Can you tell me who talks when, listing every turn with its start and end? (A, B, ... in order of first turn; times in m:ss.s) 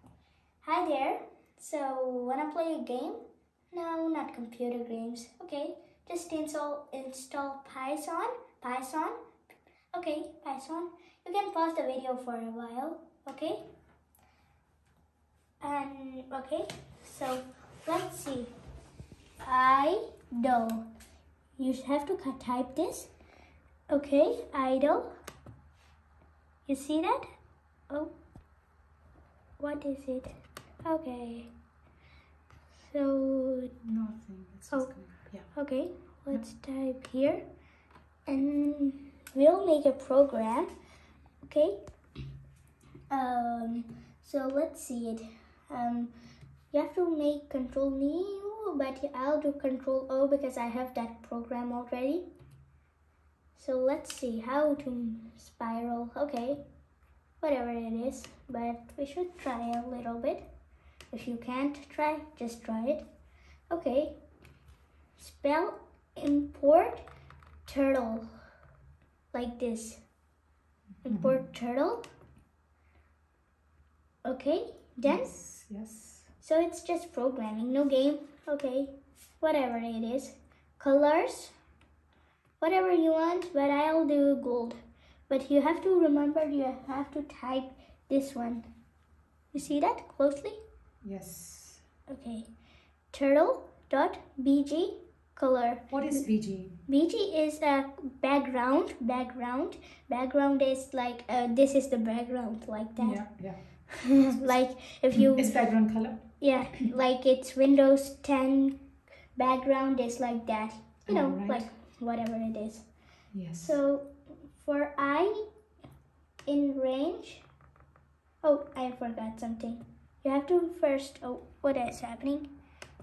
0:00.6-0:03.2 A
0:03.7-0:09.2 A
0:09.9-0:13.6 A
0:15.6-0:18.5 A
0:19.4-0:20.9 A
0:21.6-0:23.1 A
0:23.9-0:25.1 A
0:26.7-0:27.2 A
0:29.6-0:30.3 A
0:30.8-0:31.5 A
0:32.9-0:33.8 A
0:33.8-0:35.5 B
0:35.5-0:37.4 A
0:38.3-0:40.7 A
0:41.4-0:41.8 A
0:43.1-0:46.1 A
0:46.7-0:52.3 A
0:53.6-0:56.6 A
0:57.4-1:00.4 A
1:01.1-1:03.0 A
1:03.7-1:04.2 A
1:05.2-1:07.0 A
1:07.7-1:08.3 A
1:09.3-1:10.0 A
1:11.0-1:11.4 B
1:11.0-1:12.0 A
1:14.2-1:15.3 A
1:15.1-1:16.3 B
1:16.4-1:21.5 A
1:22.6-1:24.8 A
1:25.3-1:28.6 A
1:29.5-1:30.6 A
1:31.0-1:31.8 B
1:32.1-1:32.5 A
1:33.1-1:36.2 A
1:35.9-1:36.8 B
1:36.9-1:43.3 A
1:43.0-1:44.6 B
1:44.0-1:45.6 A
1:45.1-1:46.3 B
1:46.4-1:48.8 A
1:49.4-1:52.9 A
1:51.1-1:51.7 B
1:53.3-1:53.8 B
1:53.6-1:55.4 A
1:56.5-1:57.4 A
1:58.4-2:02.5 A